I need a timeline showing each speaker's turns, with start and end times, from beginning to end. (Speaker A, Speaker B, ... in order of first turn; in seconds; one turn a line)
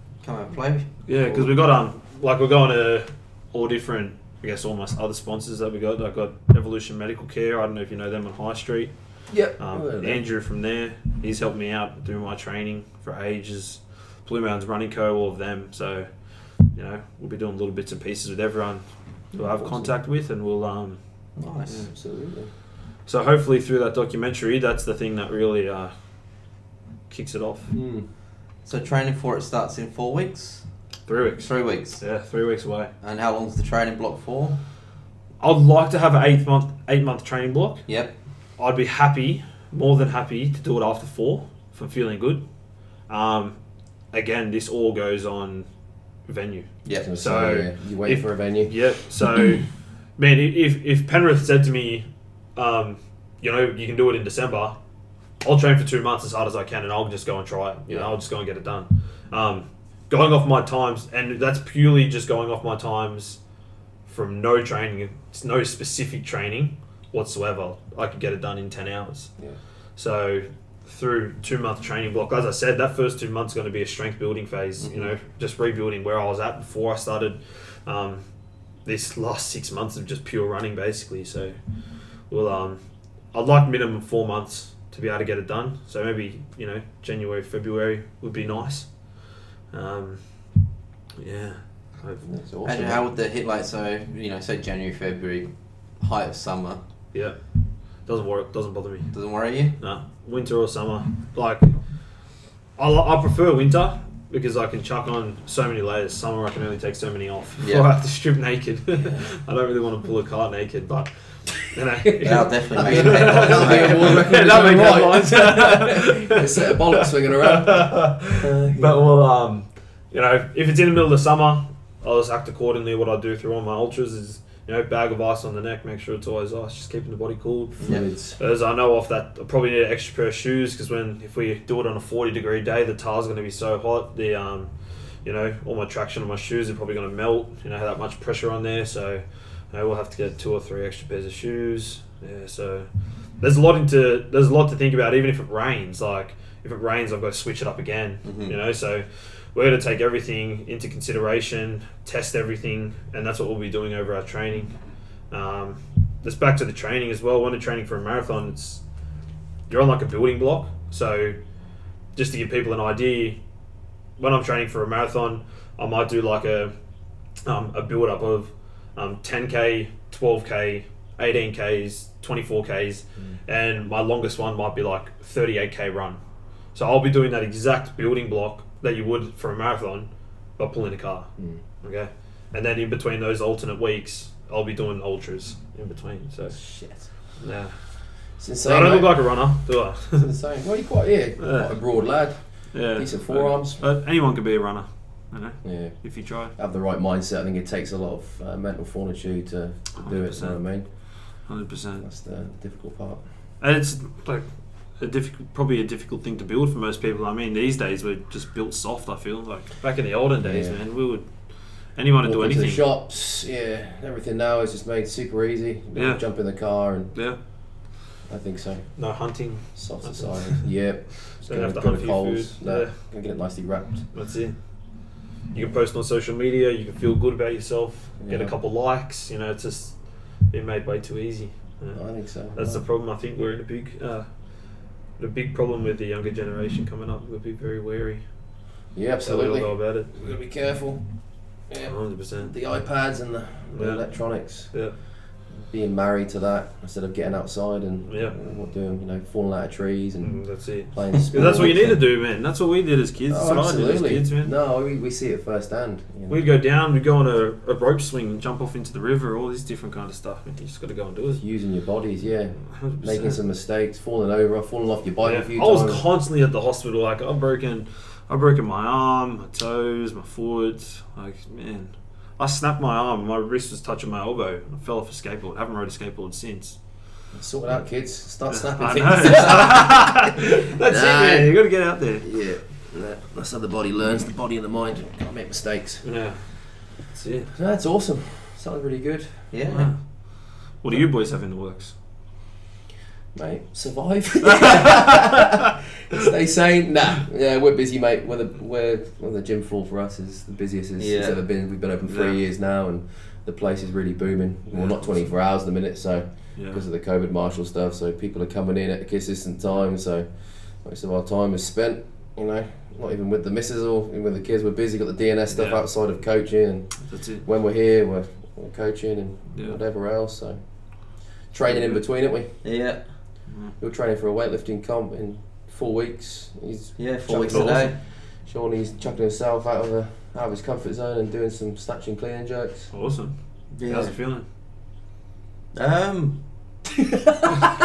Speaker A: 0.2-1.1
Speaker B: 1.1-8.9
Speaker C: 9.3-10.2
Speaker B: 9.6-16.1
Speaker B: 16.6-21.0
Speaker C: 19.4-19.9
Speaker A: 21.4-21.8
Speaker C: 21.7-22.5
Speaker B: 23.1-25.9
Speaker B: 27.1-27.7
Speaker C: 27.7-28.1
Speaker A: 28.6-30.6
Speaker B: 31.1-32.9
Speaker A: 31.4-32.0
Speaker A: 33.0-34.6
Speaker B: 35.4-37.8
Speaker A: 37.9-38.1
Speaker B: 38.6-42.4
Speaker B: 43.1-43.6
Speaker B: 44.1-45.7
Speaker B: 46.2-54.8
Speaker A: 46.8-47.1
Speaker C: 46.9-48.7
Speaker B: 55.4-63.4
Speaker B: 64.0-69.3
Speaker B: 70.0-78.2
Speaker A: 74.8-75.1
Speaker B: 78.8-81.6
Speaker B: 82.3-82.8
Speaker B: 83.3-88.9
Speaker B: 89.7-90.2
Speaker B: 91.2-92.3
Speaker C: 92.2-93.1
Speaker A: 92.6-96.8
Speaker B: 97.1-97.4
Speaker B: 98.0-99.1
Speaker A: 99.1-99.8
Speaker B: 99.8-101.8
Speaker B: 102.8-134.7
Speaker A: 107.6-107.9
Speaker C: 109.0-109.3
Speaker A: 112.2-114.2
Speaker C: 112.2-119.0
Speaker C: 127.8-128.4
Speaker B: 135.2-142.9
Speaker B: 143.4-154.7
Speaker A: 148.2-148.5
Speaker B: 155.3-158.8
Speaker B: 159.7-161.4
Speaker B: 162.1-163.4
Speaker B: 164.2-166.7
Speaker B: 167.4-176.2
Speaker B: 176.7-181.3
Speaker B: 181.8-186.6
Speaker C: 186.5-187.1
Speaker B: 187.4-187.7
Speaker C: 188.4-189.5
Speaker B: 188.6-190.3
Speaker C: 190.1-193.8
Speaker B: 191.4-191.7
Speaker B: 192.7-196.5
Speaker C: 195.6-196.0
Speaker C: 196.5-200.8
Speaker B: 200.0-200.6
Speaker B: 201.4-202.1
Speaker C: 202.0-203.2
Speaker B: 203.6-204.4
Speaker B: 205.0-211.3
Speaker C: 210.4-210.8
Speaker B: 211.9-212.8
Speaker C: 212.2-217.1
Speaker B: 215.9-216.2
Speaker B: 217.1-217.4
Speaker C: 218.2-219.0
Speaker B: 218.9-220.8
Speaker C: 219.7-224.1
Speaker B: 221.3-222.9
Speaker B: 224.1-224.6
Speaker B: 225.5-234.3
Speaker C: 228.2-228.5
Speaker C: 231.9-232.8
Speaker B: 235.2-238.2
Speaker C: 238.9-241.1
Speaker B: 239.2-240.3
Speaker C: 241.7-244.7
Speaker B: 241.8-242.5
Speaker B: 243.7-244.1
Speaker C: 245.5-252.0
Speaker B: 248.1-248.3
Speaker B: 250.2-254.5
Speaker C: 253.3-256.4
Speaker B: 256.3-261.4
Speaker C: 261.4-266.0
Speaker B: 262.7-263.4
Speaker B: 265.2-276.8
Speaker C: 277.3-281.5
Speaker B: 278.5-282.3
Speaker C: 282.2-286.1
Speaker B: 286.0-287.5
Speaker C: 287.5-289.9
Speaker A: 289.5-289.9
Speaker B: 289.7-291.9
Speaker C: 293.3-320.6
Speaker B: 294.5-295.3
Speaker A: 301.0-301.4
Speaker B: 302.1-302.4
Speaker B: 304.7-305.3
Speaker B: 306.6-306.8
Speaker B: 315.5-315.8
Speaker B: 317.0-317.4
Speaker C: 321.5-322.5
Speaker A: 322.6-323.1
Speaker B: 323.5-323.7
Speaker C: 323.8-332.9
Speaker A: 327.0-328.0
Speaker B: 327.5-327.9
Speaker B: 332.9-334.4
Speaker A: 333.7-334.1
Speaker A: 335.7-336.4